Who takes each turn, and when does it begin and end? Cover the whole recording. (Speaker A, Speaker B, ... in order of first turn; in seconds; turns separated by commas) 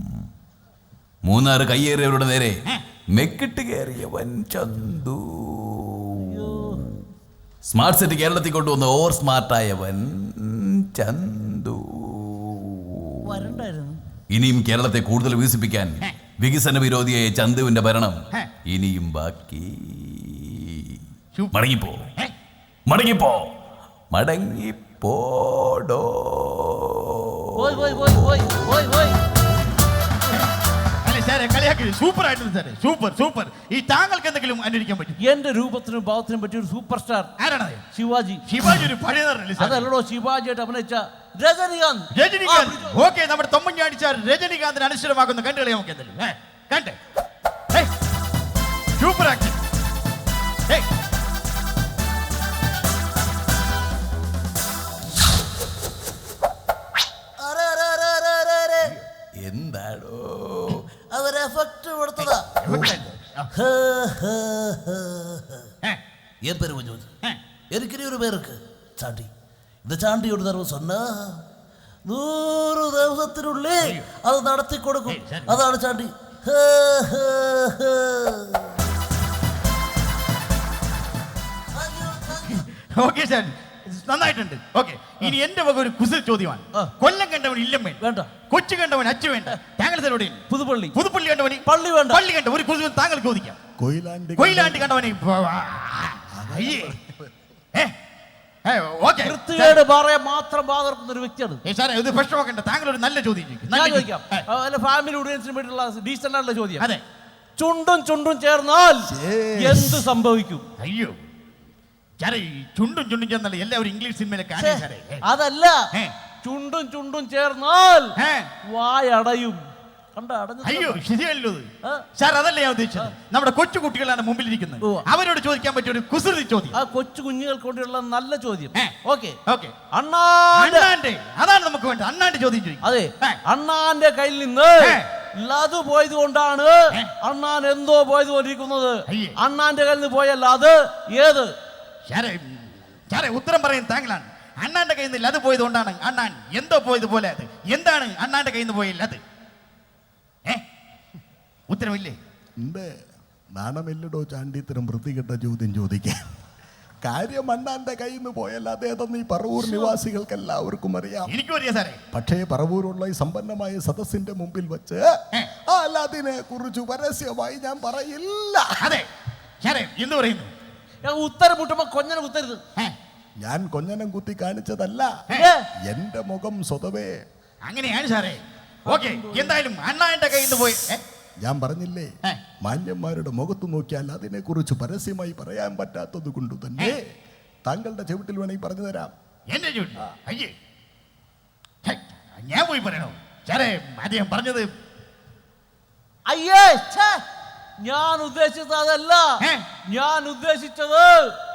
Speaker A: 1.2-2.5, Speaker A: 3.1-5.9, Speaker B: 6.2-6.8, Speaker A: 7.7-12.5, Speaker B: 13.2-14.0, Speaker A: 14.3-18.2, Speaker A: 18.7-20.5, Speaker C: 21.3-21.6, Speaker A: 21.5-22.0, Speaker A: 22.9-23.5, Speaker A: 24.1-26.5, Speaker B: 27.6-29.2, Speaker C: 31.0-35.2, Speaker B: 35.2-37.3, Speaker C: 37.4-37.8, Speaker B: 37.9-38.4, Speaker C: 38.4-39.9, Speaker B: 39.6-43.0, Speaker C: 42.1-47.0, Speaker C: 49.0-49.6, Speaker D: 57.4-58.9, Speaker A: 59.4-60.7, Speaker D: 61.1-62.5, Speaker C: 62.2-63.5, Speaker E: 62.6-62.9, Speaker D: 63.5-65.7, Speaker D: 66.4-67.1, Speaker D: 67.7-69.3, Speaker D: 69.8-71.4, Speaker D: 72.1-78.7, Speaker C: 73.8-74.1, Speaker C: 75.0-75.6, Speaker D: 81.8-82.6, Speaker C: 82.5-88.0, Speaker B: 88.0-88.3, Speaker C: 88.5-90.4, Speaker B: 90.5-91.0, Speaker C: 90.9-93.6, Speaker B: 91.6-92.2, Speaker E: 93.8-95.0, Speaker C: 94.4-96.9, Speaker E: 96.3-97.3, Speaker C: 98.6-99.8, Speaker B: 99.2-101.6, Speaker C: 101.6-104.4, Speaker B: 103.7-106.8, Speaker B: 107.6-110.6, Speaker E: 109.1-110.1, Speaker C: 110.8-111.2, Speaker C: 112.2-115.2, Speaker B: 114.6-115.8, Speaker B: 116.4-118.1, Speaker C: 118.2-118.5, Speaker B: 118.7-119.6, Speaker B: 120.1-121.0, Speaker C: 120.6-126.7, Speaker B: 126.7-129.4, Speaker C: 129.5-129.7, Speaker B: 129.9-130.9, Speaker C: 130.6-133.4, Speaker B: 132.8-141.5, Speaker C: 139.1-139.3, Speaker C: 142.1-149.2, Speaker C: 151.7-152.2, Speaker E: 152.6-152.9, Speaker E: 153.6-156.3, Speaker E: 157.0-161.3, Speaker C: 161.3-162.0, Speaker E: 162.1-165.0, Speaker E: 165.7-168.9, Speaker C: 168.8-169.1, Speaker C: 169.6-170.5, Speaker B: 171.0-172.6, Speaker E: 173.4-175.1, Speaker B: 175.3-175.6, Speaker E: 175.9-177.1, Speaker C: 177.6-181.0, Speaker B: 178.9-179.6, Speaker E: 181.4-182.1, Speaker E: 182.6-187.0, Speaker E: 187.7-189.1, Speaker C: 189.5-190.5, Speaker C: 191.8-194.7, Speaker B: 196.3-197.2, Speaker B: 197.8-199.3, Speaker B: 199.9-201.3